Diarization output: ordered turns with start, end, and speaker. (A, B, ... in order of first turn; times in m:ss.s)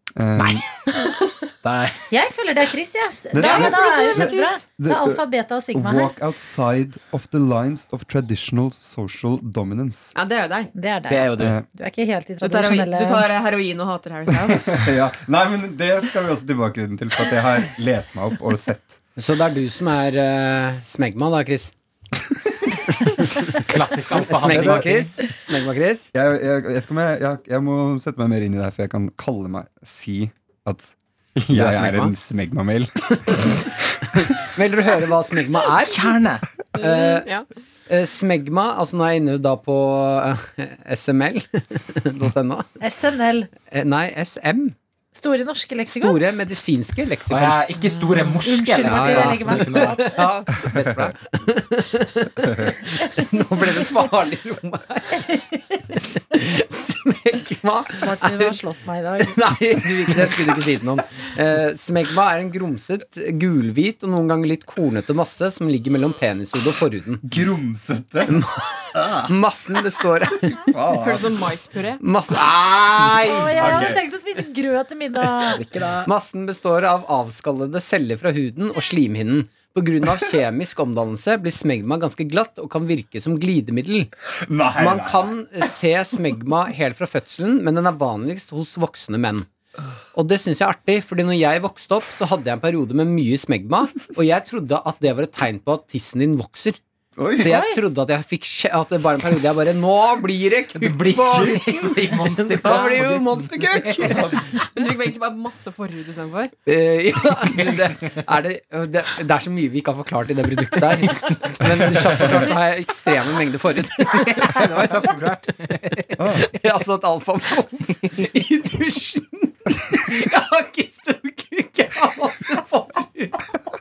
0:00.2-0:00.6 A
0:00.9-0:01.3 B
0:01.6-0:02.0 C
0:02.1-0:06.1 D
0:03.3-0:10.1 A
0:03.4-0:04.6 B
0:10.1-0:10.7 B
0:10.8-0:13.3 D
0:11.1-0:11.6 C
0:11.4-0:11.6 A
0:12.4-0:14.8 B
0:14.6-0:19.0 A
0:19.2-0:21.7 E
0:23.0-0:26.1 E
0:23.5-0:25.2 C
0:24.2-0:24.9 A
0:26.1-0:34.2 A
0:31.5-0:32.1 E
0:33.2-0:33.6 E
0:34.1-0:36.0 E
0:35.9-0:36.5 C
0:36.8-0:37.4 B
0:36.8-0:37.3 E
0:37.9-0:42.8 E
0:42.8-0:43.5 D
0:43.6-0:44.8 E
0:45.1-0:46.2 D
0:45.9-0:47.6 E
0:47.3-0:50.1 C
0:48.4-0:50.3 D
0:48.8-0:55.4 E
0:55.9-0:58.6 E
0:58.0-0:59.4 D
0:59.2-1:07.2 E
1:07.2-1:08.4 A
1:08.3-1:10.7 E
1:08.9-1:09.3 A
1:10.7-1:11.4 A
1:10.9-1:12.0 B
1:12.0-1:14.0 E
1:13.2-1:15.6 D
1:13.5-1:14.1 A
1:15.5-1:16.1 C
1:16.0-1:24.1 E
1:24.4-1:25.3 A
1:24.8-1:29.4 E
1:30.1-1:36.8 E
1:37.2-1:37.6 A
1:37.4-1:44.4 E
1:37.4-1:37.8 D
1:40.8-1:44.4 C
1:41.3-1:41.7 A
1:44.0-1:44.6 A
1:44.6-1:46.5 B
1:46.6-1:55.4 E
1:51.0-1:51.6 C
1:51.9-1:52.3 A
1:54.1-1:56.3 C
1:56.2-1:56.5 A
1:56.2-2:03.4 E